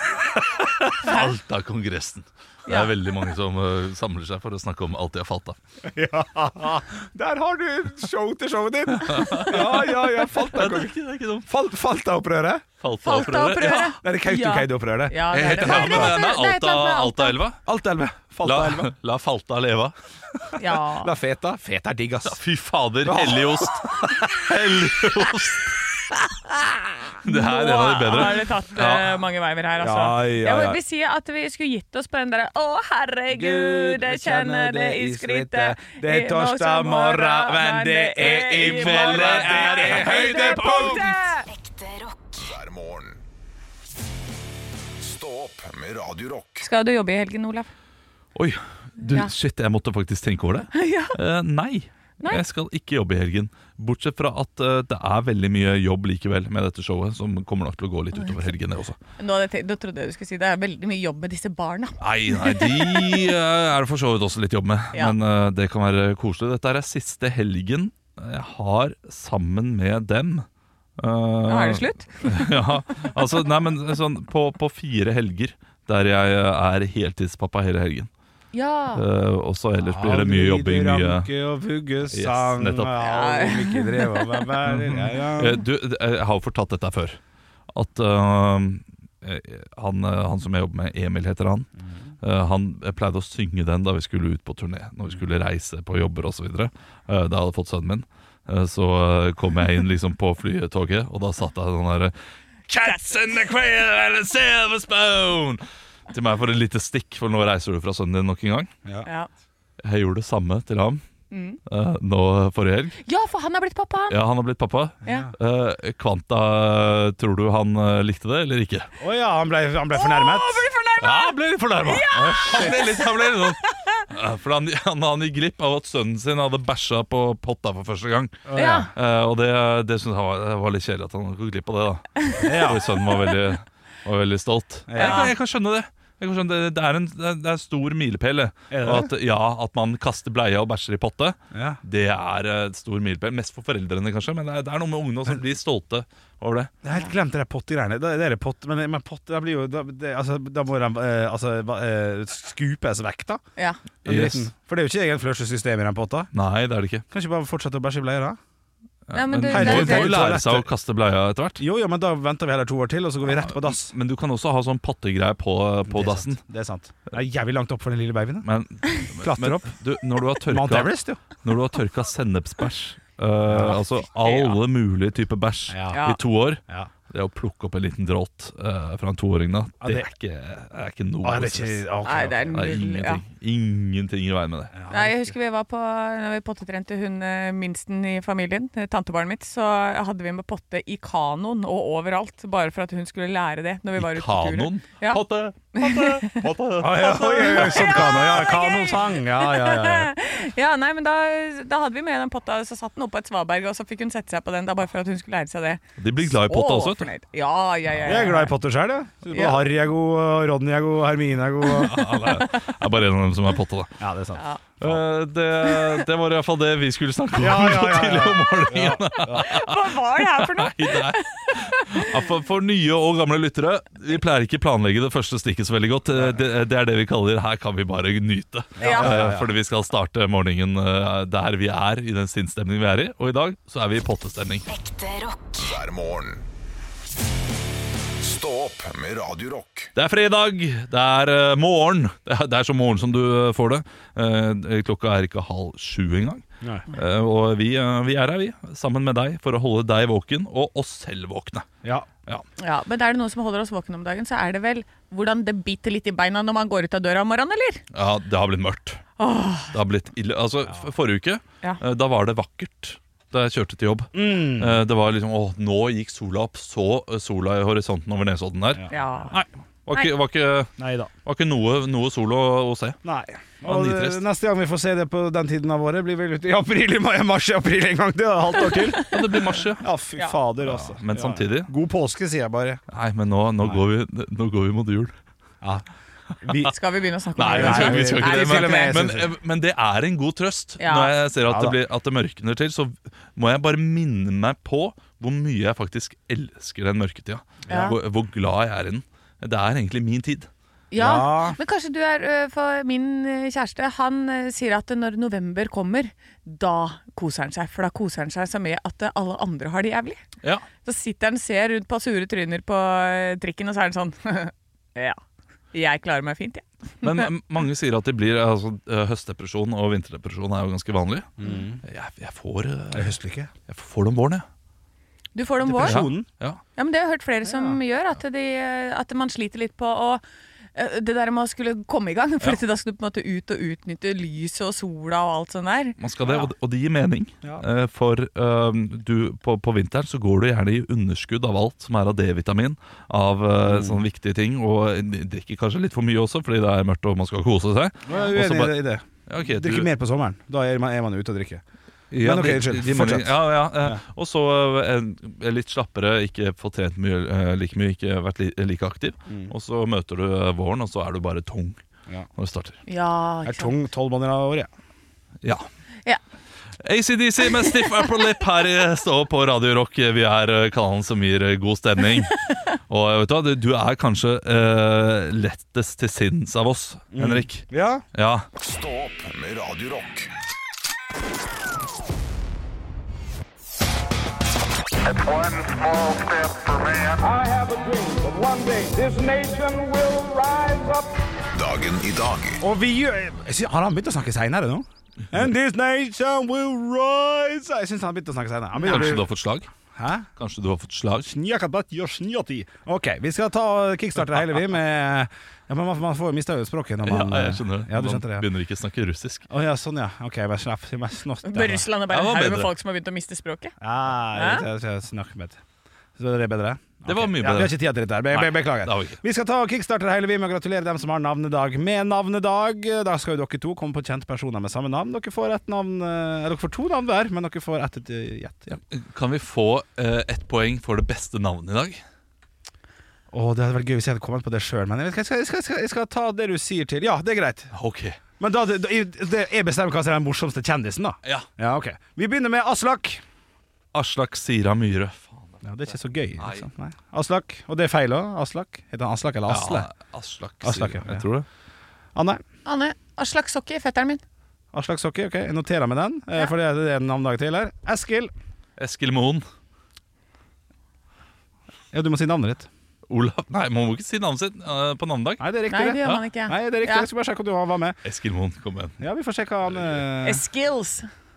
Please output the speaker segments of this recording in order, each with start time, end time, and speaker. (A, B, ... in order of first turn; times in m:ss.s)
0:00.4-0:05.6 A
0:05.9-0:10.9 B
0:09.0-0:11.5 A
0:11.5-0:12.7 B
0:12.8-0:13.9 A
0:13.0-0:17.4 C
0:13.8-0:16.2 B
0:15.3-0:17.6 A
0:17.6-0:18.9 B
0:18.4-0:19.9 A
0:20.6-0:21.1 C
0:21.0-0:22.4 B
0:22.2-0:25.8 A
0:23.0-0:23.9 B
0:26.4-0:26.7 B
0:27.2-0:29.2 A
0:27.2-0:41.5 C
0:29.8-0:30.8 B
0:33.3-0:40.9 B
0:38.2-0:41.2 A
0:41.5-0:42.5 D
0:42.4-0:43.2 E
0:45.0-0:46.7 E
0:46.6-0:47.7 C
0:48.3-0:59.0 A
0:49.0-0:49.3 C
0:50.7-0:51.2 C
0:58.1-0:58.5 C
0:59.2-1:03.2 C
1:02.0-1:10.4 A
1:11.0-1:18.1 A
1:11.4-1:12.5 C
1:18.5-1:19.0 C
1:18.9-1:21.3 A
1:19.8-1:25.6 B
1:22.1-1:23.0 A
1:23.0-1:24.4 C
1:24.6-1:27.2 A
1:27.7-1:31.7 A
1:32.2-1:42.1 A
1:42.7-1:48.7 A
1:49.8-1:51.0 A
1:51.3-1:51.6 C
1:51.7-1:53.0 A
1:53.0-1:54.2 C
1:54.1-1:58.9 A
1:55.0-1:55.3 C
1:55.0-1:55.3 B
1:59.0-2:00.7 B
1:59.9-2:04.0 C
2:01.0-2:26.7 A
2:02.1-2:02.9 B
2:08.4-2:08.9 B
2:08.5-2:08.9 C
2:12.4-2:12.9 B
2:14.9-2:15.3 B
2:15.0-2:15.3 C
2:18.7-2:19.1 B
2:21.5-2:21.8 B
2:26.8-2:33.4 B
2:34.0-2:34.5 A
2:34.0-2:36.3 B
2:36.3-2:37.0 A
2:37.1-2:38.4 B
2:39.1-2:41.6 A
2:39.1-2:40.2 C
2:39.5-2:40.7 B
2:41.6-2:43.9 B
2:43.2-2:46.4 A
2:45.9-2:48.5 B
2:48.4-3:04.7 A
2:49.1-2:49.7 B
2:50.5-2:51.2 B
2:53.5-2:53.8 B
2:54.2-2:54.6 C
2:55.7-2:56.0 B
2:55.9-2:56.2 C
2:59.8-3:00.1 B
3:01.2-3:02.6 B
3:02.0-3:03.2 C
3:04.7-3:05.3 B
3:04.9-3:15.2 C
3:14.0-3:18.1 A
3:15.7-3:16.4 C
3:16.8-3:20.1 B
3:17.2-3:28.5 C
3:26.0-3:27.1 A
3:28.0-3:32.1 B
3:29.3-3:29.6 C
3:31.7-3:34.0 A
3:34.0-3:35.0 B
3:34.8-3:54.7 A
3:37.4-3:39.5 B
3:39.2-3:42.2 C
3:46.1-3:46.4 B
3:48.8-3:49.1 C
3:48.8-3:49.5 B
3:54.7-3:55.6 D
3:55.6-3:56.4 E
3:58.2-3:59.9 E
3:59.9-4:11.7 A
4:11.8-4:12.1 B
4:12.6-4:17.8 C
4:17.9-4:19.0 A
4:19.2-4:19.7 C
4:19.7-4:33.0 A
4:24.1-4:24.8 B
4:28.9-4:29.4 C
4:30.8-4:31.1 B
4:33.0-4:39.2 B
4:33.6-4:34.2 A
4:39.0-4:39.8 A
4:39.8-4:42.8 B
4:40.6-4:41.7 A
4:42.9-4:45.1 A
4:46.4-4:46.7 B
4:46.6-4:49.1 C
4:47.4-5:00.5 A
4:47.4-4:49.3 B
4:50.8-4:51.1 C
4:51.4-4:51.8 B
4:57.7-4:57.9 C
5:00.9-5:10.2 C
5:01.0-5:01.6 B
5:10.8-5:15.2 C
5:15.7-5:17.3 C
5:17.0-5:21.3 A
5:21.4-5:21.8 B
5:21.8-5:23.1 A
5:22.9-5:23.5 B
5:23.7-5:24.4 A
5:25.3-5:26.1 C
5:25.6-5:26.3 B
5:25.8-5:26.6 A
5:26.8-5:30.2 C
5:27.4-5:27.8 B
5:30.7-5:36.0 C
5:36.0-5:49.9 A
5:43.6-5:44.0 B
5:48.1-5:51.6 B
5:52.1-6:01.8 A
5:52.2-5:54.0 B
5:59.3-5:59.5 B
6:02.4-6:02.8 A
6:02.9-6:03.7 C
6:03.4-6:04.7 B
6:06.8-6:18.4 A
6:17.1-6:18.0 B
6:18.6-6:20.3 E
6:25.1-6:31.1 F
6:31.5-6:32.6 E
6:32.6-6:39.2 B
6:38.8-6:39.7 A
6:39.9-6:40.3 B
6:40.4-6:41.3 A
6:41.2-6:48.5 B
6:47.0-6:49.4 A
6:49.5-6:51.9 B
6:51.4-6:53.7 C
6:52.1-6:52.7 A
6:53.8-6:55.6 B
6:54.3-6:54.6 C
6:56.2-7:08.8 B
6:57.0-6:57.8 A
6:58.3-6:59.2 A
7:08.9-7:12.0 A
7:13.3-7:17.7 B
7:17.7-7:18.2 A
7:18.4-7:23.2 B
7:23.9-7:25.6 A
7:25.6-7:29.9 B
7:26.4-7:26.7 A
7:29.5-7:31.4 A
7:30.6-7:31.2 B
7:32.1-7:32.4 B
7:32.6-7:34.2 C
7:34.7-7:38.3 B
7:38.8-7:39.4 A
7:41.9-7:42.7 B
7:43.1-7:45.4 A
7:45.4-7:48.0 B
7:45.7-7:47.1 C
7:48.0-7:49.0 A
7:49.0-7:50.4 B
7:50.2-7:51.1 C